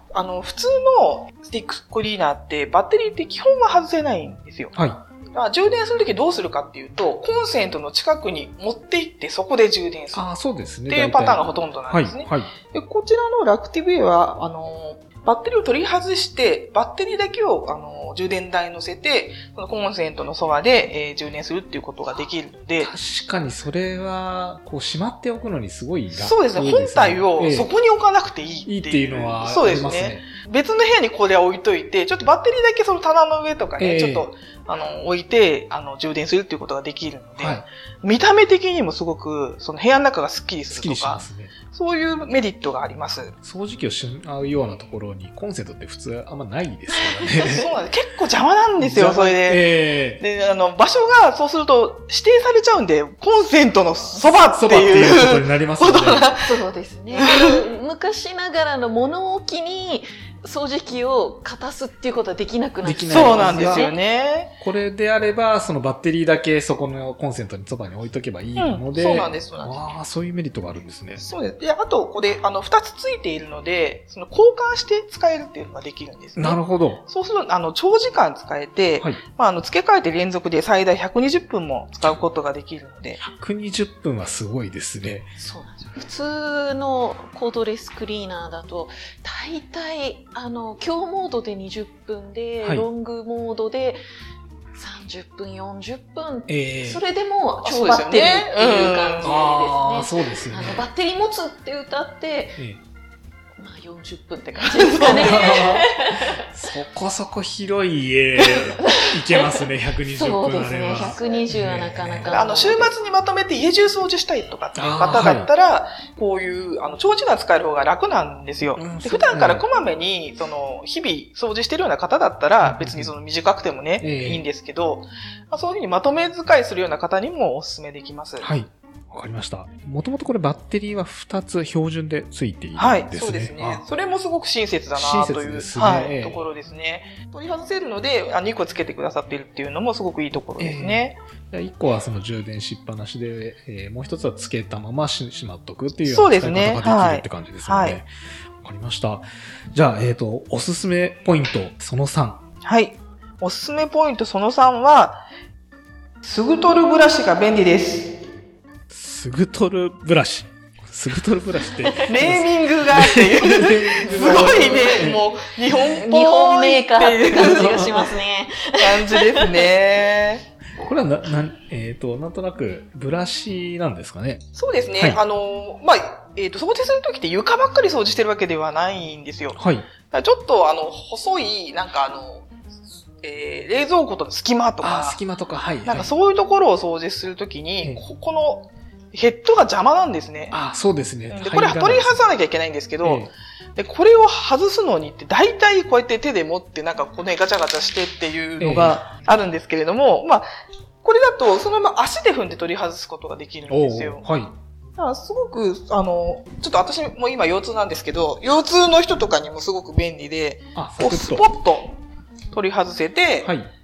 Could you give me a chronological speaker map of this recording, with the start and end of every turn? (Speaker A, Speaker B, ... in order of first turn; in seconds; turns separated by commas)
Speaker A: 0.1-4.8, Speaker B: 4.8-5.0, Speaker A: 5.3-10.3, Speaker B: 10.1-12.5, Speaker A: 10.9-22.9, Speaker B: 22.8-27.7, Speaker A: 26.1-41.2, Speaker B: 28.7-30.3, Speaker B: 33.8-34.3, Speaker B: 37.4-37.7, Speaker B: 40.7-41.5, Speaker A: 41.7-43.3, Speaker B: 43.4-47.6, Speaker C: 47.0-47.6, Speaker A: 47.5-56.5, Speaker B: 48.8-50.2, Speaker B: 54.3-56.3, Speaker C: 56.4-64.0, Speaker A: 57.2-57.6, Speaker B: 62.8-63.9, Speaker A: 63.1-64.5, Speaker B: 64.6-71.2, Speaker A: 68.6-69.8, Speaker A: 71.2-83.2, Speaker B: 76.4-77.0, Speaker B: 83.2-85.3, Speaker C: 85.4-94.0, Speaker C: 94.8-102.6, Speaker B: 96.5-97.0, Speaker A: 97.6-99.5, Speaker B: 99.2-100.9, Speaker B: 102.6-102.8, Speaker C: 103.6-106.4, Speaker A: 104.8-105.7, Speaker B: 105.0-112.4, Speaker C: 108.7-112.9, Speaker A: 110.9-111.4, Speaker A: 112.3-128.5, Speaker B: 114.8-115.5, Speaker B: 118.8-119.7, Speaker B: 122.6-123.1, Speaker B: 124.0-124.4, Speaker B: 128.4-133.8, Speaker A: 132.8-141.2, Speaker B: 134.9-136.4, Speaker B: 140.6-148.1, Speaker A: 146.0-148.0, Speaker B: 148.6-152.4, Speaker A: 152.6-155.2, Speaker A: 156.2-158.1, Speaker B: 158.9-165.2, Speaker A: 162.0-168.2, Speaker C: 164.1-165.0, Speaker C: 165.9-169.7, Speaker B: 167.4-168.0, Speaker A: 168.8-170.5, Speaker B: 170.8-174.4, Speaker A: 174.6-179.6, Speaker B: 179.6-179.9, Speaker A: 180.1-182.5, Speaker A: 183.2-185.2, Speaker B: 184.8-186.1, Speaker A: 185.8-190.6, Speaker B: 190.5-192.2, Speaker A: 191.3-200.5, Speaker B: 193.0-193.3, Speaker B: 198.6-199.0, Speaker A: 201.0-204.3, Speaker B: 203.7-204.5, Speaker A: 205.0-212.0, Speaker B: 210.8-211.5, Speaker A: 212.5-213.5, Speaker B: 213.4-213.7